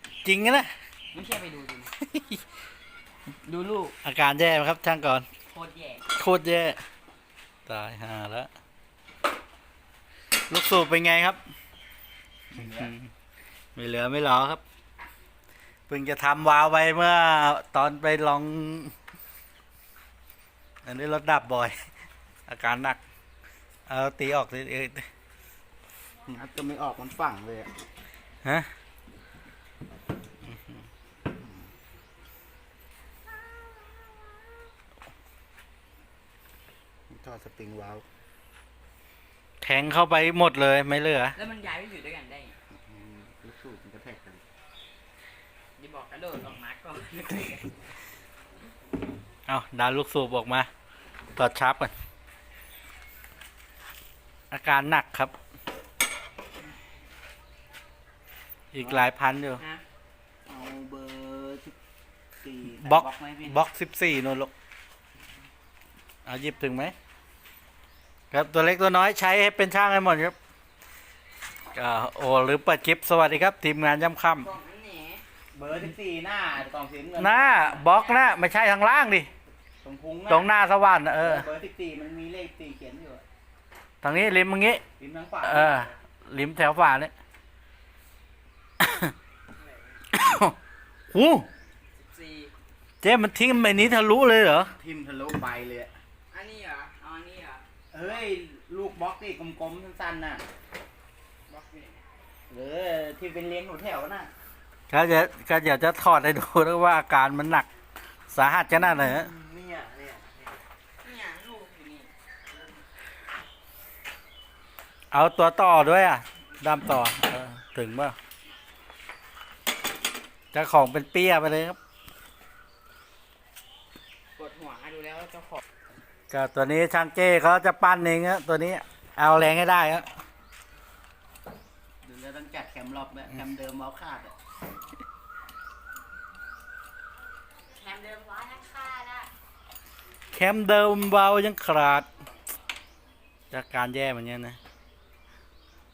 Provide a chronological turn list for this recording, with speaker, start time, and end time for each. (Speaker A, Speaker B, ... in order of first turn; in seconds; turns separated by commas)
Speaker A: 0.2-0.7, Speaker B: 1.1-1.9, Speaker A: 2.1-2.4, Speaker C: 3.4-3.9, Speaker A: 4.0-5.3, Speaker B: 5.5-6.0, Speaker A: 6.1-6.8, Speaker A: 7.7-8.5, Speaker A: 10.5-11.4, Speaker C: 12.5-12.9, Speaker A: 12.6-13.1, Speaker A: 13.8-14.6, Speaker A: 15.9-18.9, Speaker A: 20.8-21.7, Speaker A: 22.5-23.0, Speaker A: 23.9-25.1, Speaker C: 26.3-27.7, Speaker A: 28.4-28.7, Speaker A: 30.5-30.8, Speaker C: 31.4-31.7, Speaker C: 37.1-38.0, Speaker A: 39.6-41.4, Speaker B: 41.4-42.6, Speaker C: 42.9-44.4, Speaker B: 45.8-47.9, Speaker A: 49.5-50.7, Speaker A: 51.4-51.9, Speaker A: 54.5-55.3, Speaker A: 58.7-59.6, Speaker C: 58.8-59.1, Speaker C: 60.5-61.8, Speaker C: 62.4-63.6, Speaker A: 62.8-64.5, Speaker A: 66.3-66.9, Speaker A: 68.3-70.3, Speaker A: 71.8-74.5, Speaker B: 74.4-75.2, Speaker C: 75.5-77.8, Speaker A: 77.2-79.3, Speaker B: 77.9-78.2, Speaker C: 79.8-80.5, Speaker A: 80.3-81.5, Speaker C: 81.2-83.2, Speaker A: 84.0-84.8, Speaker C: 85.0-85.9, Speaker A: 85.4-87.1, Speaker A: 88.8-89.1, Speaker B: 89.5-90.0, Speaker A: 90.1-90.6, Speaker A: 91.1-91.5, Speaker B: 92.0-92.5, Speaker A: 93.0-94.8, Speaker C: 94.8-95.9, Speaker B: 96.3-97.6, Speaker C: 97.9-100.4, Speaker B: 101.5-102.0, Speaker C: 102.5-104.3, Speaker A: 104.9-107.7, Speaker A: 108.3-109.3, Speaker C: 108.7-110.6, Speaker B: 111.0-112.1, Speaker A: 115.1-118.2, Speaker A: 120.5-121.8, Speaker B: 124.4-125.6, Speaker A: 126.3-130.1, Speaker C: 132.0-134.3, Speaker B: 137.7-139.3, Speaker A: 140.3-142.1, Speaker A: 143.5-144.6